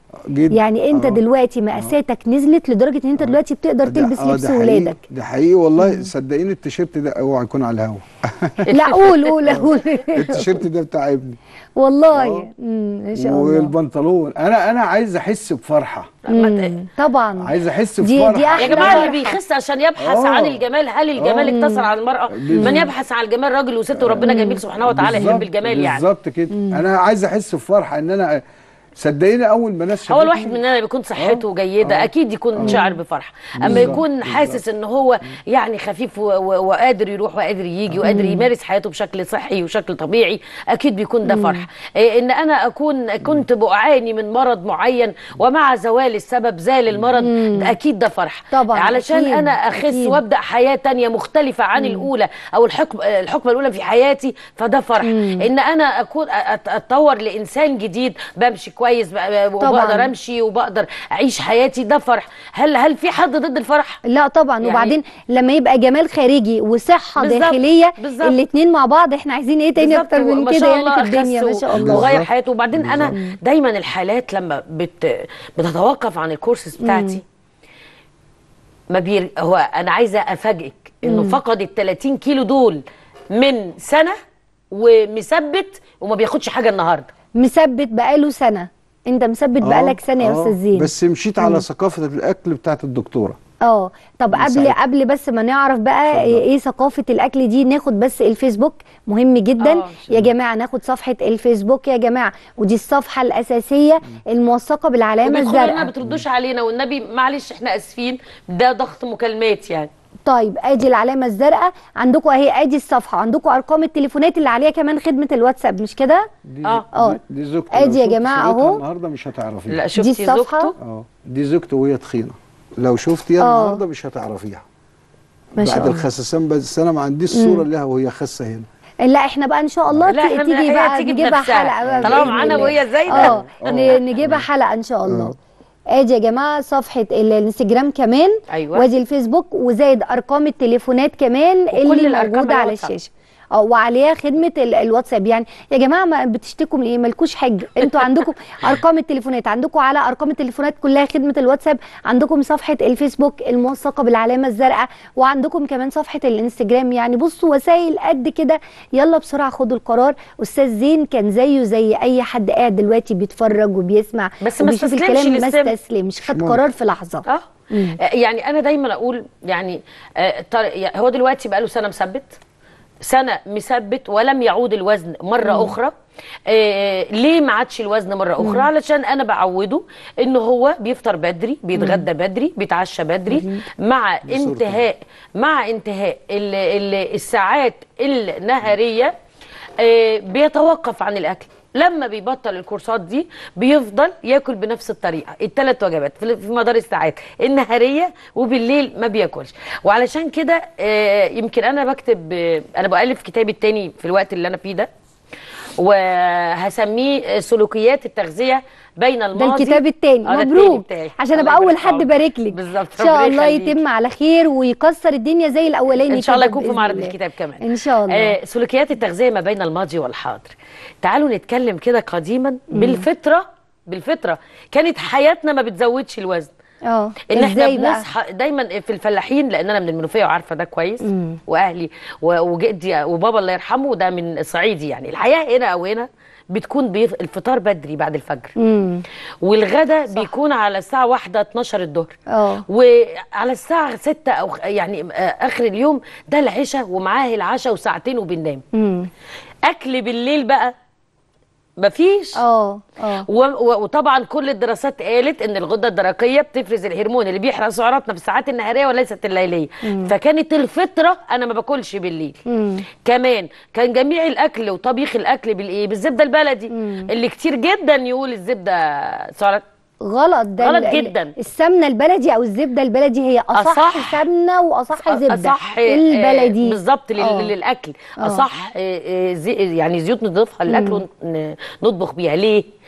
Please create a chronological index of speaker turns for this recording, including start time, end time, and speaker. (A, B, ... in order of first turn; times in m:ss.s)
0:00.2-0:01.2 A
0:00.5-0:05.0 B
0:03.2-0:08.6 A
0:05.8-0:06.1 B
0:08.7-0:09.6 C
0:08.7-0:10.6 B
0:09.5-0:11.4 A
0:11.8-0:13.7 B
0:12.1-0:12.5 A
0:13.2-0:16.2 A
0:16.2-0:16.8 C
0:16.3-0:19.4 B
0:17.4-0:19.2 A
0:18.5-0:26.1 C
0:20.0-0:20.6 A
0:21.2-0:21.5 A
0:21.4-0:21.9 B
0:22.3-0:22.9 A
0:22.5-0:22.9 B
0:24.0-0:28.4 A
0:24.2-0:25.5 B
0:26.5-0:26.8 B
0:29.0-0:30.6 A
0:30.0-1:04.0 C
0:31.2-0:32.8 A
0:32.6-0:33.0 B
0:33.6-0:34.6 A
0:33.6-0:34.0 B
0:37.9-0:38.2 A
0:38.0-0:38.5 B
0:41.2-0:41.6 B
0:47.2-0:47.7 B
0:48.5-0:50.2 B
0:51.8-0:52.1 B
0:55.0-0:55.5 B
0:59.6-1:00.1 B
1:04.1-1:12.2 B
1:04.6-1:05.0 C
1:07.2-1:08.4 C
1:09.8-1:17.2 C
1:11.7-1:13.2 A
1:13.1-1:13.4 B
1:16.8-1:17.2 B
1:18.9-1:22.8 C
1:21.0-1:21.4 B
1:23.3-1:24.2 C
1:24.7-1:27.1 C
1:27.4-1:31.6 B
1:29.6-1:33.4 A
1:33.6-1:45.9 B
1:34.3-1:34.8 A
1:36.1-1:36.4 A
1:39.6-1:40.1 C
1:45.2-1:49.9 C
1:46.0-1:46.2 A
1:50.3-1:56.3 B
1:56.4-1:59.8 A
1:56.9-1:57.2 B
1:57.7-1:58.8 B
1:59.7-2:00.7 C
2:00.0-2:00.7 B
2:00.8-2:04.6 A
2:03.4-2:03.8 B
2:05.6-2:06.0 B
2:05.6-2:08.7 A
2:07.3-2:07.6 B
2:09.0-2:15.3 B
2:10.1-2:14.3 C
2:11.8-2:14.4 A
2:15.0-2:15.4 A
2:15.9-2:48.0 B
2:18.5-2:18.8 C
2:21.7-2:22.9 C
2:44.4-2:45.7 C
2:46.3-2:46.6 A
2:47.2-2:52.4 C
2:53.0-2:55.9 C
2:55.4-2:55.7 B
2:56.5-3:09.1 C
2:58.4-2:58.7 B
3:01.7-3:02.1 B
3:03.3-3:03.6 B
3:04.2-3:04.8 A
3:09.8-3:24.9 C
3:25.8-3:33.8 C
3:29.4-3:38.3 B
3:36.1-3:46.5 C
3:42.7-3:43.0 B
3:46.9-3:48.0 B
3:47.3-3:58.5 C
3:51.0-3:51.4 B
3:58.6-3:59.0 B
3:59.4-4:02.1 C
4:02.3-4:02.6 B
4:02.7-4:08.6 C
4:08.7-4:09.1 B
4:09.6-4:10.7 C
4:11.8-4:12.4 C
4:12.4-4:13.2 B
4:13.2-4:22.4 C
4:19.8-4:20.1 B
4:22.5-4:22.8 B
4:23.0-4:29.6 C
4:26.7-4:27.1 B
4:30.0-4:37.5 B
4:30.6-4:31.3 C
4:33.6-4:34.2 C
4:35.1-4:42.7 C
4:38.2-4:38.4 B
4:40.7-4:41.0 B